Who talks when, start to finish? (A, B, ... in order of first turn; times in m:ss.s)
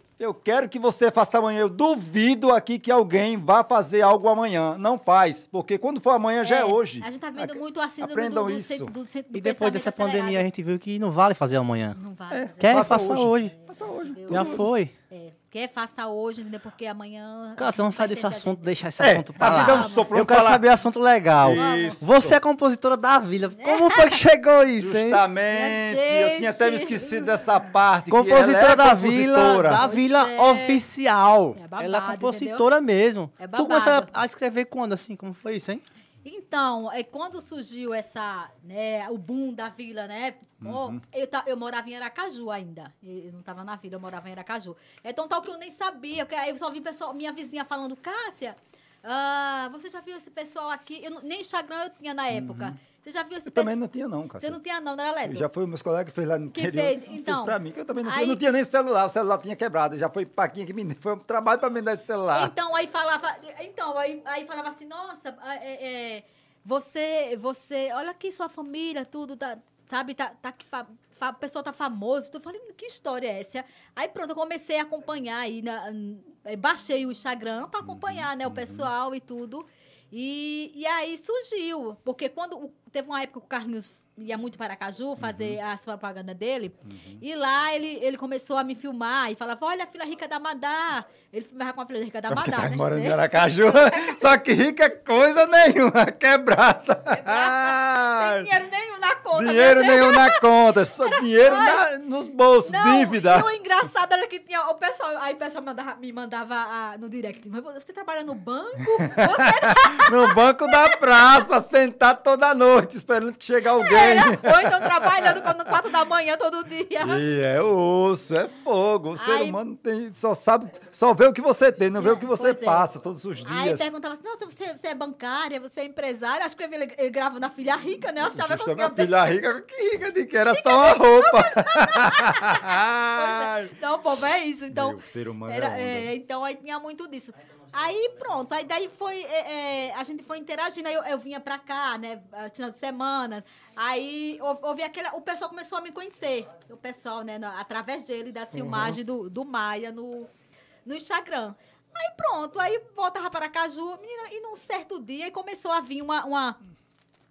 0:00.2-0:08.9 A
0:06.4-0:10.5 B
0:09.3-0:12.0 C
0:11.9-0:18.6 B
0:12.3-0:14.7 A
0:12.6-0:13.5 C
0:14.3-0:14.9 C
0:17.6-0:25.2 C
0:19.0-0:20.6 A
0:19.4-0:20.1 B
0:21.4-0:22.4 A
0:21.6-0:22.0 B
0:23.6-0:24.2 B
0:24.8-0:29.9 A
0:25.5-0:27.5 B
0:28.1-0:35.8 C
0:29.8-0:30.8 B
0:31.6-0:32.6 B
0:33.4-0:34.1 B
0:36.2-0:53.8 B
0:40.6-0:41.0 A
0:52.3-0:52.8 A
0:53.4-0:54.6 A
0:54.4-0:55.5 B
0:55.2-1:02.5 A
0:56.5-0:58.4 B
1:02.3-1:34.3 B
1:17.8-1:18.9 A
1:25.2-1:25.6 A
1:26.8-1:27.2 A
1:32.3-1:38.5 A
1:37.1-1:41.8 B
1:39.3-1:43.5 A
1:42.6-1:51.0 B
1:49.0-1:55.7 A
1:53.7-1:57.2 B
1:57.0-2:03.9 A
1:59.2-1:59.6 B
2:02.0-2:02.9 B
2:03.4-2:09.4 B
2:08.2-2:13.8 A
2:10.5-2:30.3 B
2:14.7-2:16.1 A
2:28.6-2:28.9 A
2:30.8-2:36.6 B